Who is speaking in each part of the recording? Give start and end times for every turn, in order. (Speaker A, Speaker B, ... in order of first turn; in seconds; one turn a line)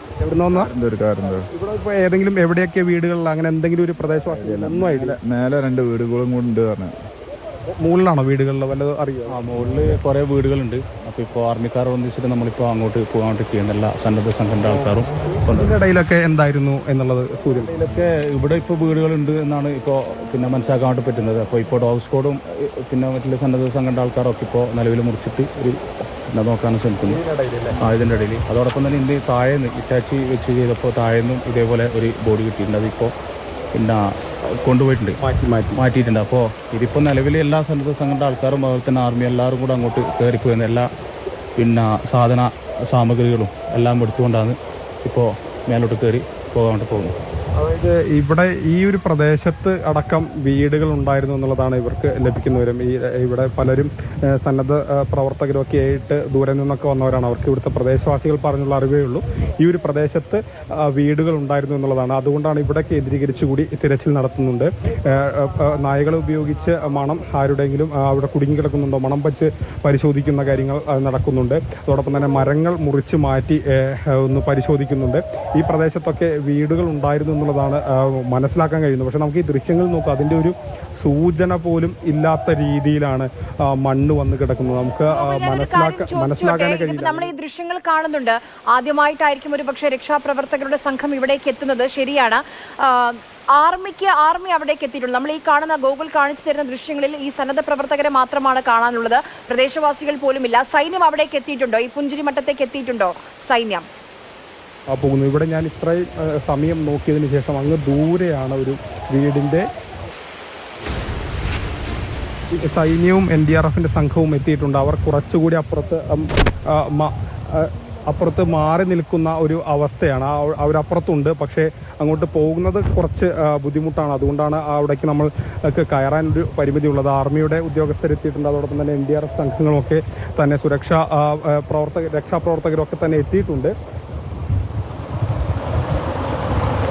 Speaker A: 0.2-0.7
Speaker B: 0.5-1.5
Speaker A: 1.5-5.2
Speaker B: 4.3-6.9
Speaker A: 7.8-10.0
Speaker C: 9.3-15.7
Speaker A: 14.6-15.0
Speaker A: 15.5-17.7
Speaker C: 17.7-25.8
Speaker C: 26.3-27.2
Speaker A: 27.0-27.8
Speaker C: 27.8-33.1
Speaker C: 33.7-34.0
Speaker C: 34.6-35.2
Speaker A: 35.2-35.8
Speaker C: 35.8-40.9
Speaker C: 41.6-47.1
Speaker A: 47.6-87.3
Speaker D: 85.1-103.8
Speaker A: 104.9-109.6
Speaker A: 112.5-133.7